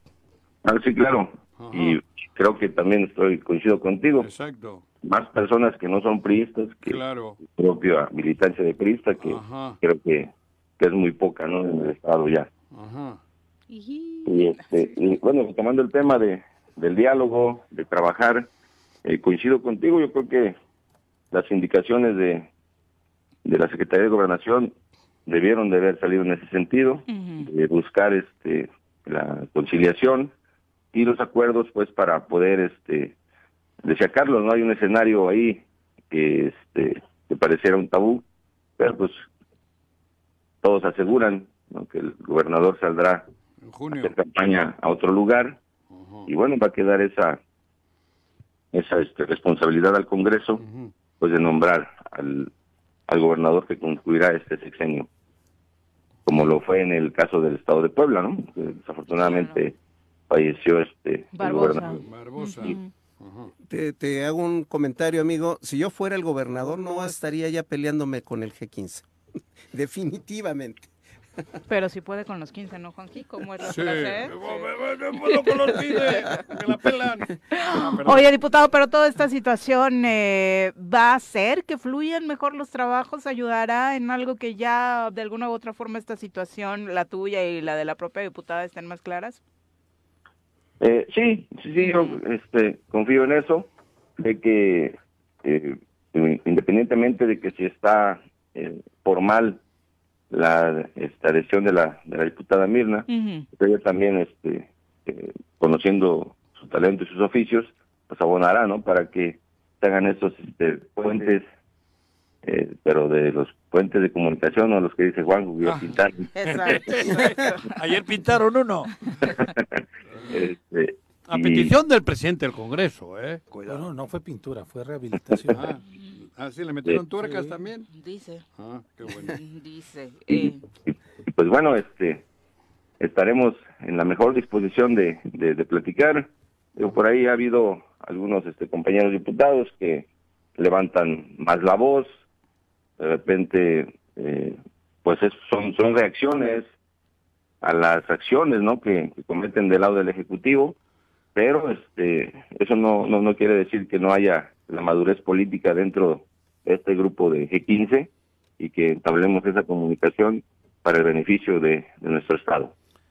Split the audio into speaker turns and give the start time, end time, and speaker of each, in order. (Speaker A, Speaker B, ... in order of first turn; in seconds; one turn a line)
Speaker A: 0.6-4.3
Speaker B: 1.6-2.0
Speaker B: 4.2-4.8
Speaker A: 5.0-12.5
Speaker B: 6.8-7.4
Speaker B: 9.2-9.8
Speaker B: 12.7-13.2
Speaker C: 13.7-15.0
Speaker A: 14.2-18.5
Speaker A: 19.0-20.6
Speaker A: 21.3-22.5
Speaker A: 23.4-24.7
Speaker A: 25.2-30.3
Speaker C: 27.1-27.5
Speaker A: 30.9-33.1
Speaker A: 33.8-38.2
Speaker A: 38.8-39.2
Speaker A: 40.6-43.2
Speaker B: 43.6-44.1
Speaker A: 44.0-45.6
Speaker B: 45.9-46.3
Speaker A: 46.2-47.4
Speaker A: 48.7-50.6
Speaker B: 50.6-50.9
Speaker A: 51.2-52.5
Speaker A: 53.1-55.1
Speaker A: 56.2-59.8
Speaker C: 59.2-59.6
Speaker A: 60.3-62.0
Speaker C: 61.3-62.9
Speaker B: 61.4-63.5
Speaker D: 63.7-69.0
Speaker D: 69.7-70.9
Speaker C: 71.7-74.7
Speaker B: 73.6-78.4
Speaker C: 75.2-76.4
Speaker C: 77.5-89.4
Speaker A: 90.8-99.6
Speaker C: 91.8-92.2
Speaker A: 100.3-111.5
Speaker C: 103.1-103.5
Speaker A: 112.4-117.0
Speaker B: 115.6-119.3
Speaker C: 116.3-117.6
Speaker A: 120.3-121.7
Speaker B: 121.3-123.9
Speaker E: 123.7-125.6
Speaker B: 125.5-127.8
Speaker E: 127.2-127.6
Speaker C: 127.9-128.4
Speaker B: 128.6-129.4
Speaker C: 129.3-130.6
Speaker A: 130.3-132.2
Speaker A: 133.0-142.1
Speaker A: 143.0-146.7
Speaker A: 147.6-150.8
Speaker A: 151.3-162.7